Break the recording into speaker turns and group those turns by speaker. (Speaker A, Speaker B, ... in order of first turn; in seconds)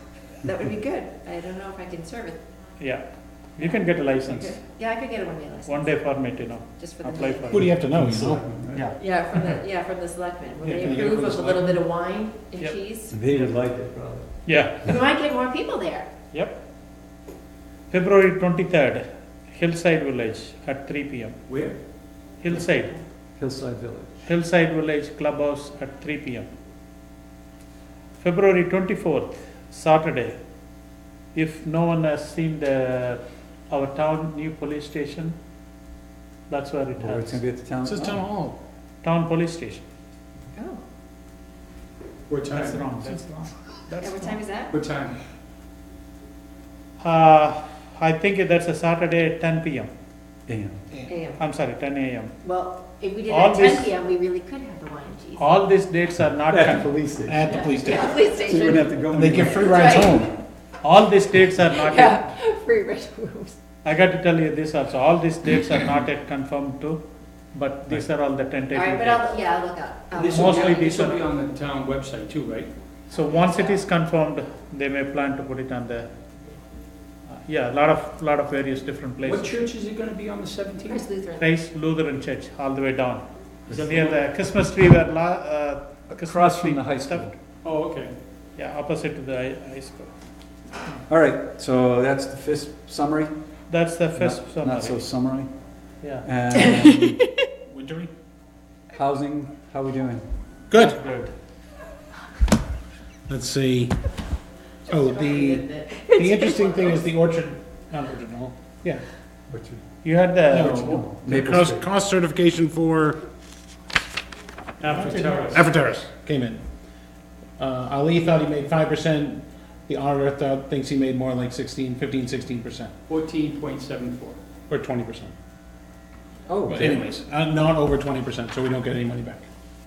Speaker A: 0.4-2.4, 3.6-6.0, 6.7-7.7, 9.0-13.2, 14.8-16.1, 40.5-40.8, 44.0-44.7, 51.1-51.4, 52.4-55.5, 57.5-59.0, 59.6-60.3, 61.7-63.6, 68.7-71.1, 73.3-73.8, 80.9-81.5, 104.9-107.0
Speaker B: 3.6-4.6, 5.7-7.8, 14.4-14.9, 16.3-16.6, 17.9-21.4, 22.4-23.0, 24.2-26.5, 28.2-30.4, 31.3-35.4, 36.5-37.4, 39.0-39.8, 42.5-44.4, 47.0-49.9, 51.3-52.4, 53.3-53.9, 55.4-56.9, 60.8-62.3, 63.8-69.3, 70.2-71.2, 73.1-76.1, 77.3-79.6, 81.4-87.3, 88.6-90.1, 93.7-95.0, 100.8-101.3, 110.0-111.0, 114.9-115.6
Speaker C: 7.5-8.4, 10.6-11.8, 37.8-38.6, 57.3-58.4, 59.0-60.3, 97.7-98.1, 100.7-101.0, 103.3-104.0, 104.9-109.0, 110.5-113.2, 114.8-116.6, 117.6-122.9, 124.7-125.3, 126.7-129.5
Speaker D: 7.9-8.9, 13.1-14.3, 23.4-24.1, 37.0-38.2, 50.5-50.8, 56.5-57.5, 58.3-60.1, 86.2-87.3, 91.1-93.4, 94.1-95.5, 96.2-97.3, 98.9-100.2, 109.5-109.8, 110.5-111.9, 126.5-127.1
Speaker E: 21.5-21.8, 42.3-42.9, 44.7-45.2, 70.1-72.7, 79.2-81.0, 83.9-84.2, 87.6-88.1, 114.8-115.7, 123.1-124.4